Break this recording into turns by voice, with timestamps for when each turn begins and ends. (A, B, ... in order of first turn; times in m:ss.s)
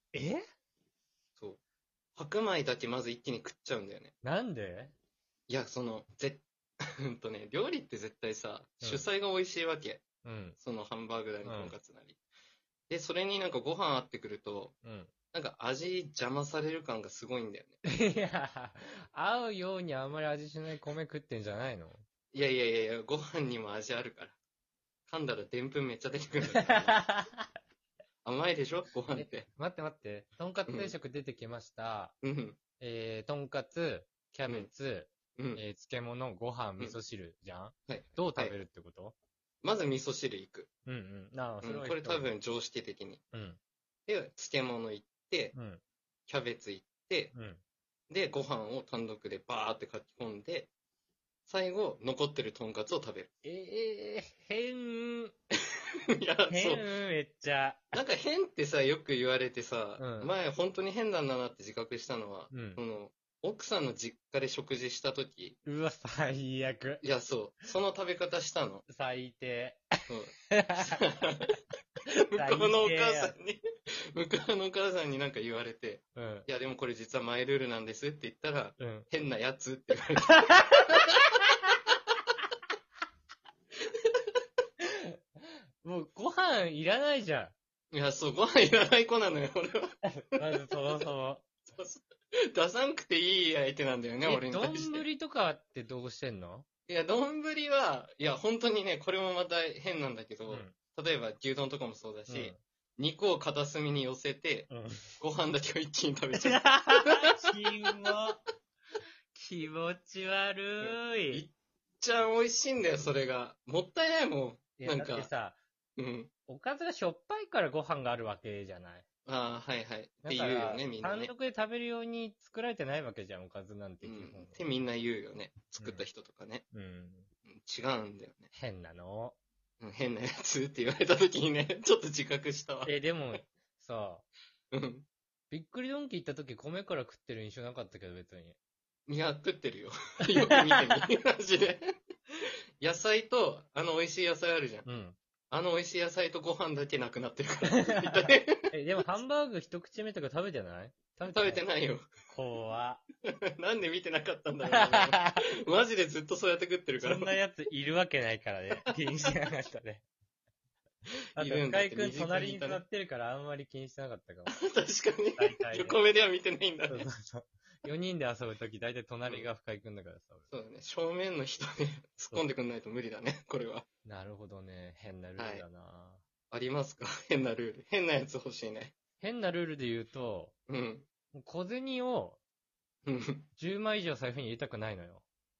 0:00.1-0:00.4 A
0:02.2-0:04.1 B
0:04.2-0:04.9 A
0:05.5-0:06.4 B
0:07.0-0:10.0 B
0:10.2-0:10.6 A
0:10.6-0:12.2 B
0:11.4-0:11.7 A
0:12.9-0:14.7 B
0:14.8-0:15.1 A
0:15.3-0:17.8 B
0:17.8-0:22.0 A
0:22.3-0:24.4 B
0:25.1-0:27.0 B
0:26.6-0:27.5 A
0:28.2-0:29.5 B
0:29.1-0:32.1 A
0:30.7-0:30.9 B
0:32.2-0:32.6 B
0:32.8-0:39.1 A
0:35.4-0:35.6 B
0:37.9-0:38.6 B
0:39.6-0:40.7 B
0:40.8-0:42.3 A
0:41.6-0:43.2 B
0:43.3-0:43.6 A
0:44.1-0:45.6 B
0:45.5-0:45.8 A
0:46.3-0:47.3 B
0:47.3-0:47.6 A
0:48.1-0:50.7 B
0:51.5-0:53.3 B
0:53.4-0:55.3 A
0:56.1-0:56.8 B
0:56.5-0:58.0 A
0:57.9-1:05.6 B
1:00.0-1:00.3 A
1:02.5-1:02.8 A
1:05.6-1:07.0 A
1:07.0-1:08.8 B
1:08.9-1:09.9 A
1:10.1-1:11.6 B
1:10.5-1:11.0 A
1:12.3-1:13.6 B
1:12.3-1:13.3 A
1:14.1-1:21.2 B
1:16.2-1:16.5 A
1:18.8-1:19.0 A
1:20.4-1:21.5 A
1:21.9-1:22.1 B
1:24.0-1:24.3 B
1:24.8-1:25.2 A
1:25.8-1:27.5 A
1:27.9-1:31.0 B
1:30.2-1:31.4 A
1:31.6-1:35.0 B
1:34.2-1:36.6 A
1:36.9-1:47.5 B
1:40.5-1:40.7 A
1:42.3-1:42.6 A
1:44.7-1:45.1 A
1:46.3-1:48.4 A
1:49.3-1:51.4 A
1:50.8-1:55.3 B
1:54.8-1:55.6 A
1:56.0-1:56.3 B
1:56.5-1:59.0 A
1:59.2-2:01.3 B
2:00.2-2:04.7 A
2:04.0-2:06.6 B
2:05.8-2:06.0 A
2:06.7-2:07.3 A
2:07.5-2:08.5 B
2:08.5-2:09.4 A
2:09.8-2:12.9 B
2:12.8-2:14.2 A
2:14.7-2:15.1 B
2:15.5-2:18.6 A
2:19.1-2:21.9 B
2:20.3-2:21.0 A
2:22.8-2:24.8 B
2:24.8-2:25.2 A
2:25.5-2:28.7 B
2:27.7-2:28.1 A
2:28.7-2:31.6 A
2:31.3-2:32.1 B
2:32.3-2:33.0 A
2:33.2-2:37.3 B
2:34.7-2:35.4 A
2:37.0-2:40.0 A
2:38.8-2:39.3 B
2:41.4-2:42.8 B
2:41.4-2:44.6 A
2:44.5-2:47.1 B
2:45.4-2:46.0 A
2:46.9-2:50.5 A
2:50.5-2:53.8 B
2:54.0-2:56.2 A
2:55.4-2:55.6 B
2:56.5-2:58.9 B
2:59.2-3:00.5 A
3:00.7-3:01.1 B
3:01.3-3:02.4 A
3:03.0-3:03.5 B
3:03.6-3:05.2 A